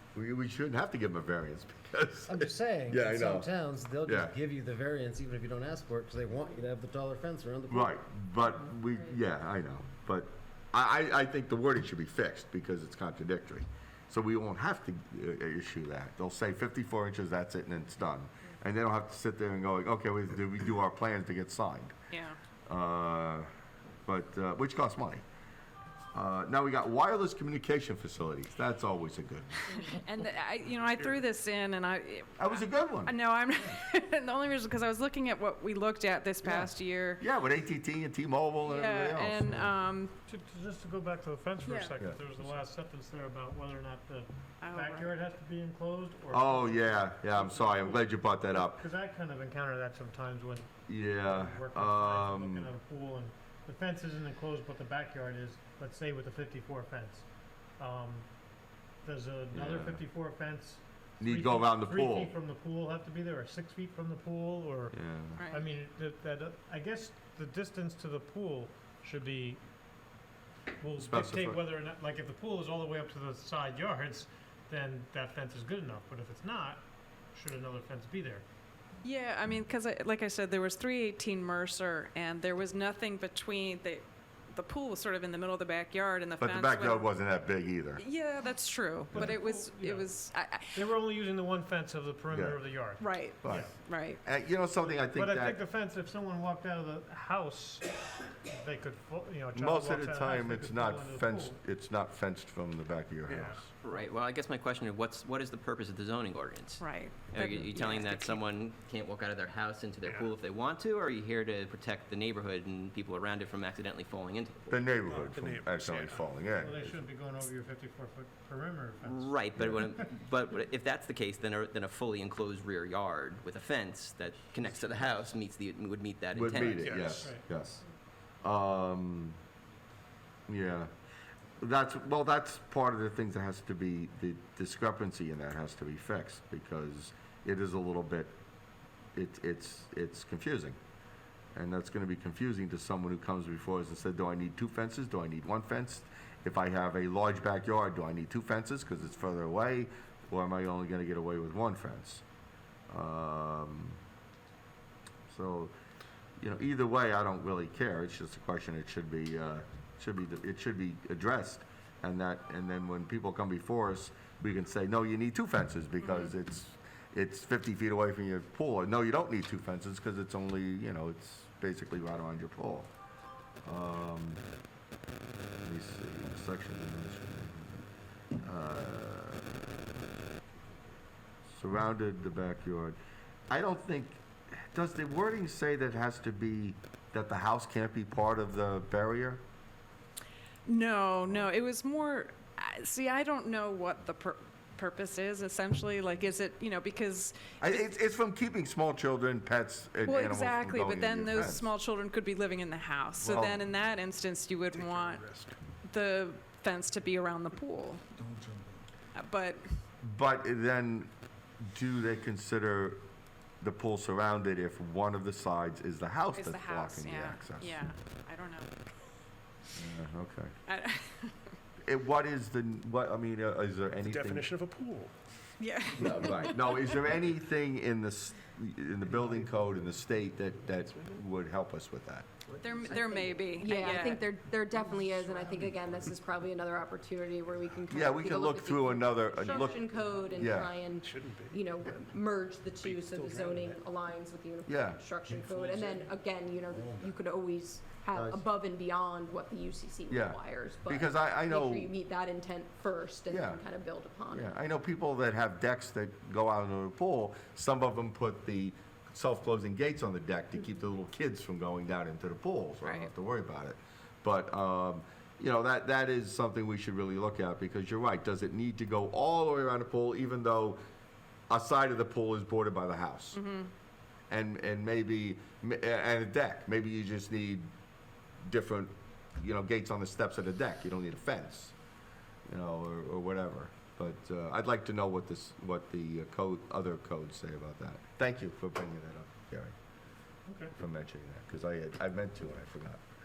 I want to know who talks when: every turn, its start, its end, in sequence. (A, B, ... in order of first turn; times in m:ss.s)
0:00.1-0:03.5 A
0:02.3-0:07.8 B
0:04.0-0:04.3 A
0:07.7-0:21.9 A
0:22.1-0:22.4 C
0:22.6-0:23.5 A
0:24.0-0:25.2 A
0:26.1-0:29.6 A
0:29.7-0:37.2 C
0:32.4-0:33.1 A
0:36.4-0:39.7 A
0:38.6-0:40.1 C
0:40.3-0:58.3 D
0:41.6-0:42.4 C
0:44.6-0:45.1 C
0:46.3-0:48.8 A
0:50.9-0:52.7 A
0:59.0-1:09.6 D
0:59.5-1:00.0 A
1:01.2-1:02.3 A
1:04.9-1:05.4 A
1:05.4-1:05.6 C
1:10.8-1:18.4 D
1:11.0-1:11.6 A
1:19.0-1:27.1 C
1:26.4-1:28.0 A
1:28.0-1:30.8 C
1:29.2-1:30.1 D
1:30.7-1:33.7 D
1:32.3-1:32.6 A
1:33.0-1:34.2 C
1:33.4-1:35.6 A
1:34.9-1:38.0 D
1:38.5-1:41.6 D
1:39.5-1:43.7 A
1:43.3-1:43.6 E
1:43.7-1:55.0 F
1:46.8-1:48.4 C
1:50.0-1:50.3 E
1:54.7-1:57.0 A
1:55.1-1:56.5 E
1:56.5-1:59.3 D
1:59.0-2:07.2 F
2:06.3-2:07.8 A
2:06.8-2:07.4 E
2:08.4-2:09.4 A
2:10.5-2:10.9 A
2:11.6-2:18.3 A
2:19.1-2:20.8 A
2:21.5-2:32.2 A
2:32.9-2:34.0 A
2:35.3-2:35.7 A
2:36.4-2:52.9 A
2:46.0-2:46.3 C
2:53.6-2:54.4 A
2:55.6-2:57.8 A
2:58.4-2:59.6 A
3:01.5-3:03.0 A
3:03.5-3:09.4 A
3:10.6-3:17.8 C
3:17.6-3:21.7 A
3:20.0-3:28.0 C
3:23.2-3:23.6 A
3:24.7-3:25.6 E
3:28.2-3:28.7 E
3:29.1-3:29.6 C
3:30.0-3:33.0 A
3:33.6-3:37.8 A
3:36.3-3:38.7 C
3:39.7-3:40.5 A
3:40.7-3:41.3 C
3:41.8-3:44.6 A
3:44.0-3:45.1 E
3:45.6-3:47.0 C
3:45.9-3:52.3 A
3:49.0-3:51.2 E
3:52.6-3:54.4 C
3:52.8-4:14.5 G
3:54.8-3:56.1 E
3:57.5-3:58.3 E
3:57.9-3:59.8 A
3:59.4-4:02.0 E
4:00.3-4:00.7 A
4:02.8-4:03.8 E
4:04.6-4:05.0 A
4:05.3-4:06.1 E
4:08.1-4:08.4 A
4:10.1-4:11.9 A
4:13.3-4:13.6 A
4:14.3-4:30.8 A
4:22.8-4:23.1 C
4:31.5-4:33.4 A
4:33.3-4:33.7 C
4:34.3-4:37.7 A
4:38.4-4:41.7 A
4:42.5-4:49.7 A
4:50.5-4:50.7 D
4:50.8-4:53.0 A